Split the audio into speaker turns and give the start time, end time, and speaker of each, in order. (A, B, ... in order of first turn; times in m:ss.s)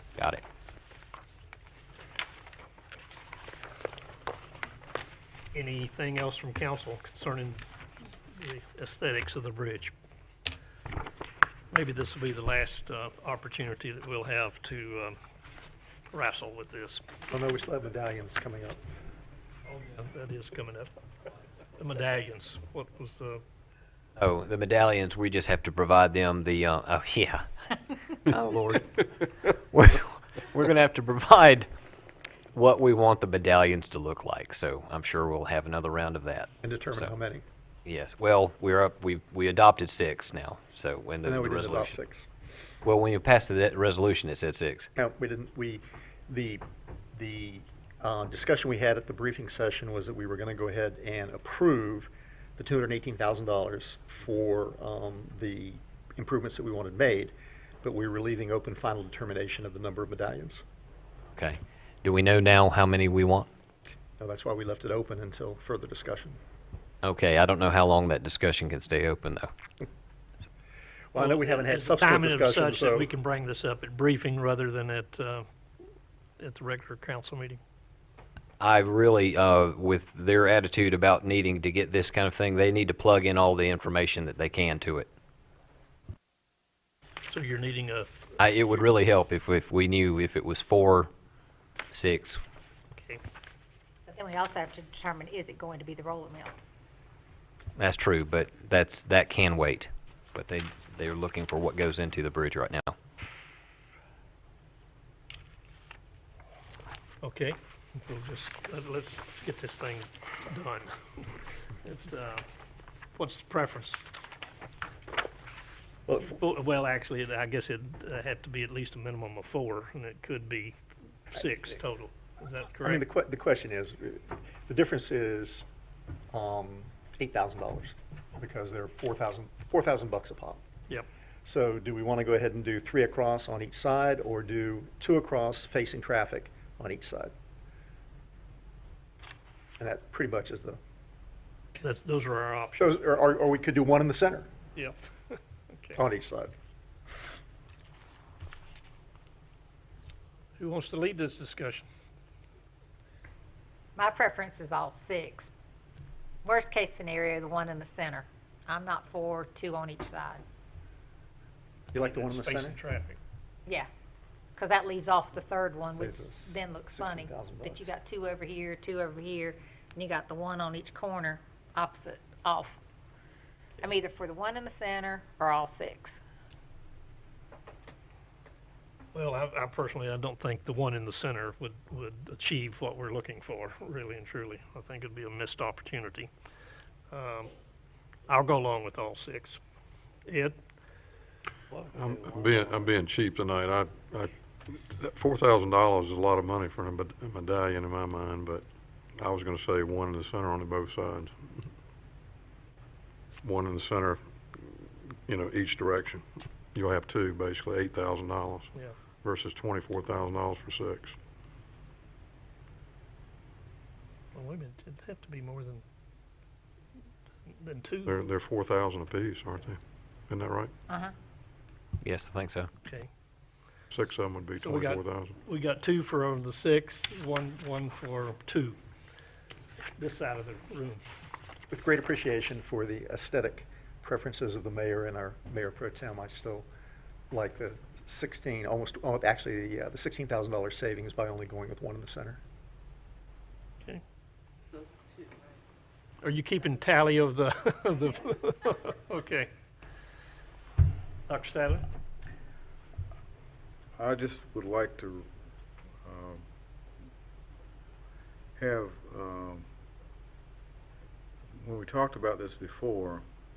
0:00.2-0:00.4 A
0:05.5-0:07.6 B
0:08.3-0:09.9 B
0:11.7-0:15.2 B
0:16.1-0:17.0 B
0:17.3-0:18.8 C
0:19.7-0:20.9 B
0:21.8-0:23.4 B
0:24.2-0:27.5 A
0:28.1-0:31.7 A
0:32.5-0:37.1 A
0:36.6-0:37.4 C
0:37.8-0:42.0 A
0:41.2-0:42.2 C
0:42.8-0:44.9 A
0:45.0-0:46.6 C
0:47.1-1:00.6 C
1:01.4-1:03.5 A
1:04.2-1:06.4 C
1:07.0-1:09.5 A
1:11.1-1:13.1 C
1:11.2-1:15.5 B
1:16.4-1:17.6 B
1:18.6-1:25.1 A
1:27.3-1:28.1 B
1:28.4-1:31.1 A
1:31.9-1:32.4 A
1:33.0-1:33.2 B
1:34.1-1:36.5 D
1:37.8-1:42.9 A
1:47.2-1:52.4 B
1:53.2-1:54.0 B
1:56.1-1:56.3 C
1:56.2-2:00.7 B
2:01.3-2:03.0 B
2:02.8-2:05.6 C
2:06.3-2:10.6 C
2:11.4-2:17.3 C
2:19.8-2:20.8 C
2:21.8-2:22.9 B
2:22.8-2:24.5 C
2:24.8-2:26.0 B
2:26.0-2:26.5 C
2:30.6-2:31.9 B
2:34.0-2:35.5 D
2:36.4-2:40.4 D
2:41.9-2:42.8 C
2:42.0-2:43.2 B
2:44.6-2:52.8 D
2:46.0-2:47.9 C
2:53.8-2:56.2 D
2:59.1-3:06.3 B
3:07.1-3:07.5 B
3:08.3-3:09.6 B
3:10.2-3:10.6 B
3:11.9-3:18.6 E
3:19.2-3:21.6 E
3:23.4-3:28.7 E
3:29.2-3:31.2 E
3:34.3-3:35.8 B
3:37.5-3:38.1 B
3:38.0-3:40.7 E
3:42.0-3:42.7 A
3:42.8-3:43.1 B
3:43.9-3:45.3 E
3:44.6-3:48.8 B
3:50.0-3:51.0 B
3:51.7-3:56.6 C
3:57.3-4:02.4 C
4:06.2-4:09.5 B
4:11.3-4:11.8 B
4:14.0-4:15.3 F
4:16.0-4:16.4 F
4:18.6-4:19.6 F
4:21.6-4:23.2 F